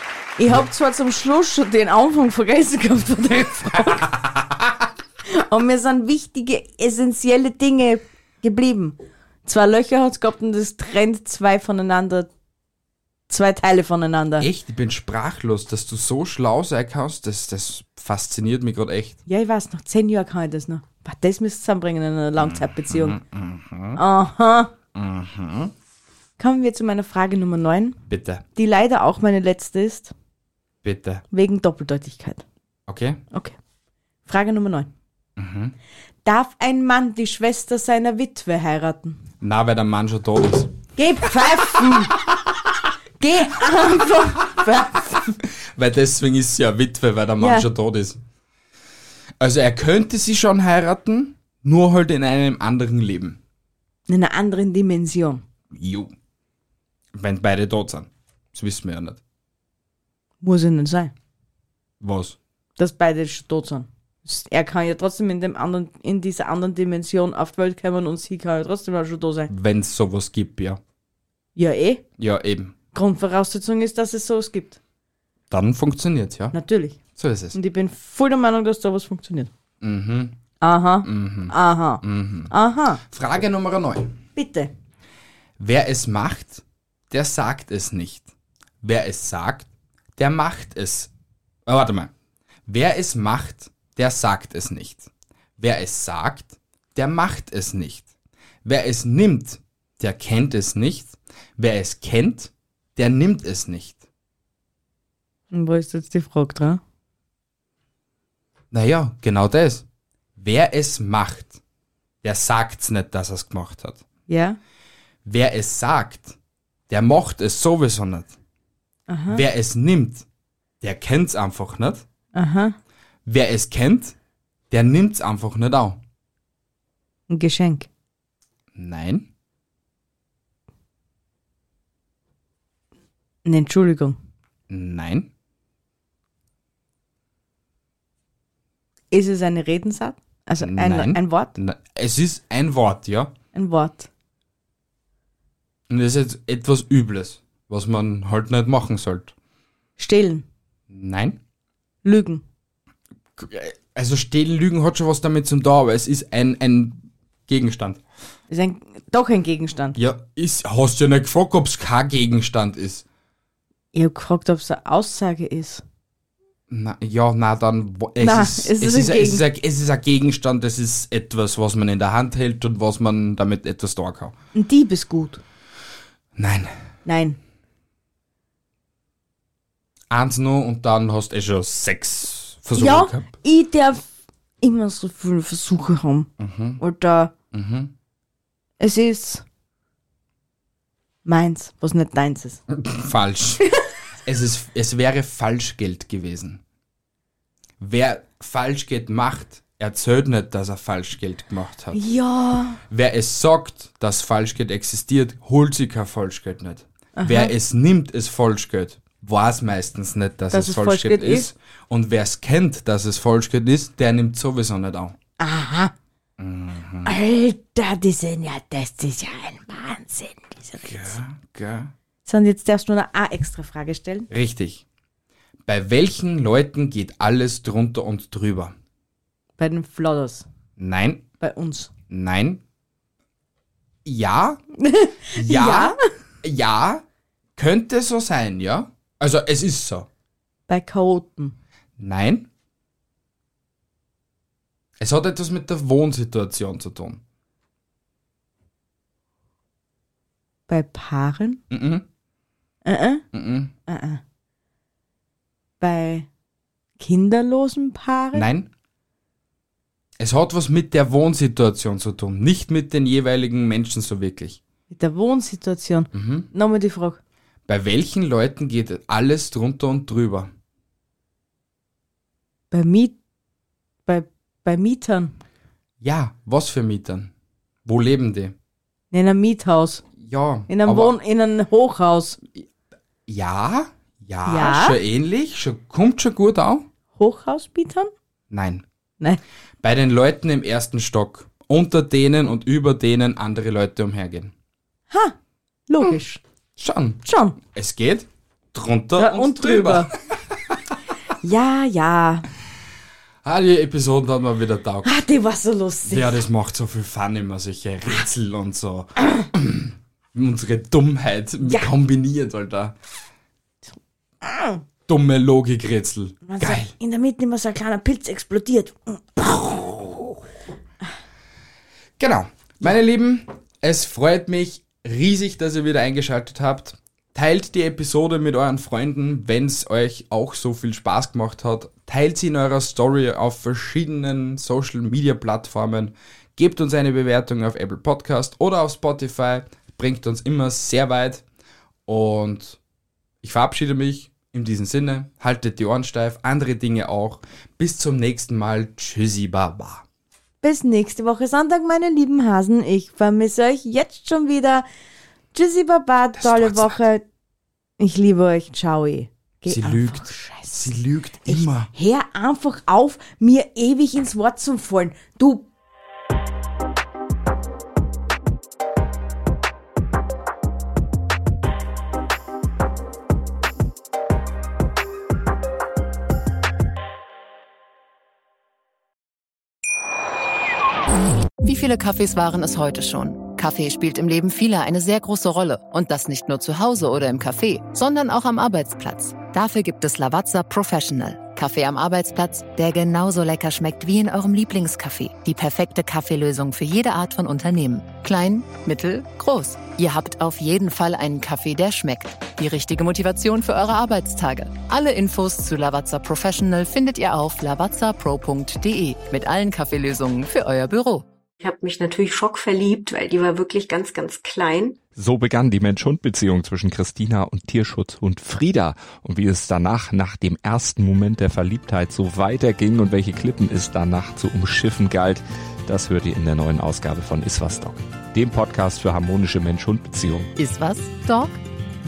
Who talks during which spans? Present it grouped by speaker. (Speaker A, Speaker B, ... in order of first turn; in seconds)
Speaker A: 0.4-4.1, 5.2-12.3, 13.3-14.5, 19.3-23.2, 23.9-24.7, 26.4-28.0, 28.6-30.1, 31.3-32.4, 33.3-33.6, 34.2-34.9, 36.2-39.2, 41.0-42.2, 43.2-45.3, 47.4-47.7, 54.1-55.4, 60.4-61.1, 62.8-69.5, 71.5-72.0, 72.9-74.8, 76.5-77.0, 77.5-79.5, 80.6-83.0, 84.3-84.7, 105.5-106.8, 114.3-114.6, 119.1-119.4, 122.3-122.8, 127.3-127.9, 133.4-134.2, 139.1-141.5, 143.5-144.1, 150.0-150.4, 152.0-152.4, 158.5-160.0, 163.9-165.8, 168.2-169.4, 174.5-175.4, 177.0-177.4, 182.7-187.3, 188.8-189.4, 191.2-192.6, 201.9-202.8, 207.2-207.5, 210.5-211.5, 215.4-215.9, 217.0-221.2, 222.2-224.3, 229.6-230.4, 231.4-231.9, 234.8-236.0, 240.7-241.5, 250.7-251.6, 252.8-253.3, 253.9-254.2, 255.8-256.3, 257.0-258.5, 264.9-267.2, 272.7-273.1, 274.1-275.3, 279.1-280.0, 280.7-282.4, 284.4-285.0, 287.1-288.1, 295.1-295.4, 295.9-296.4, 297.2-297.6, 299.2-300.1, 301.4-302.5, 305.0-306.4, 311.6-311.9, 314.4-314.8, 316.4-320.1, 350.6-354.9, 355.5-357.2, 358.0-360.8, 361.4-365.7
Speaker B: 4.0-4.3, 14.4-19.2, 22.4-24.0, 24.9-25.7, 28.1-28.4, 30.8-31.2, 32.9-33.2, 35.4-35.7, 39.4-40.8, 41.5-42.8, 44.4-48.2, 49.4-53.4, 55.7-56.1, 57.1-59.2, 62.0-62.4, 69.5-70.8, 72.2-72.7, 75.5-76.5, 77.1-77.6, 79.8-80.4, 81.0-82.5, 83.0-84.2, 85.6-88.3, 88.8-91.1, 91.7-92.1, 92.7-98.1, 98.6-104.0, 108.7-109.8, 110.3-111.6, 112.2-114.0, 115.2-116.3, 116.9-118.3, 119.3-120.2, 120.8-122.0, 123.2-124.2, 124.7-126.0, 128.7-129.3, 134.7-135.3, 140.6-143.3, 145.9-149.3, 150.9-151.4, 153.4-158.0, 159.9-163.0, 166.7-174.3, 176.3-176.7, 180.1-183.3, 186.4-186.8, 187.5-187.9, 192.7-193.7, 194.2-196.6, 197.8-202.0, 202.9-215.2, 216.4-217.1, 220.8-221.9, 224.3-224.8, 225.7-228.7, 230.8-231.3, 232.1-232.6, 234.0-234.6, 235.3-237.0, 237.6-240.1, 242.0-242.5, 245.0-247.2, 251.7-252.1, 253.3-253.7, 258.3-258.7, 260.2-264.6, 266.1-266.5, 267.7-270.5, 276.0-277.3, 277.8-278.5, 280.2-281.1, 283.3-286.9, 288.5-288.8, 289.8-294.5, 296.8-300.8, 303.4-305.1, 306.1-313.0, 315.1-316.9, 322.2-341.4, 342.1-342.8, 343.4-350.0, 356.4-357.0, 359.7-361.9
Speaker C: 381.6-411.2, 430.6-431.6
Speaker D: 411.6-415.0
Speaker E: 415.1-430.5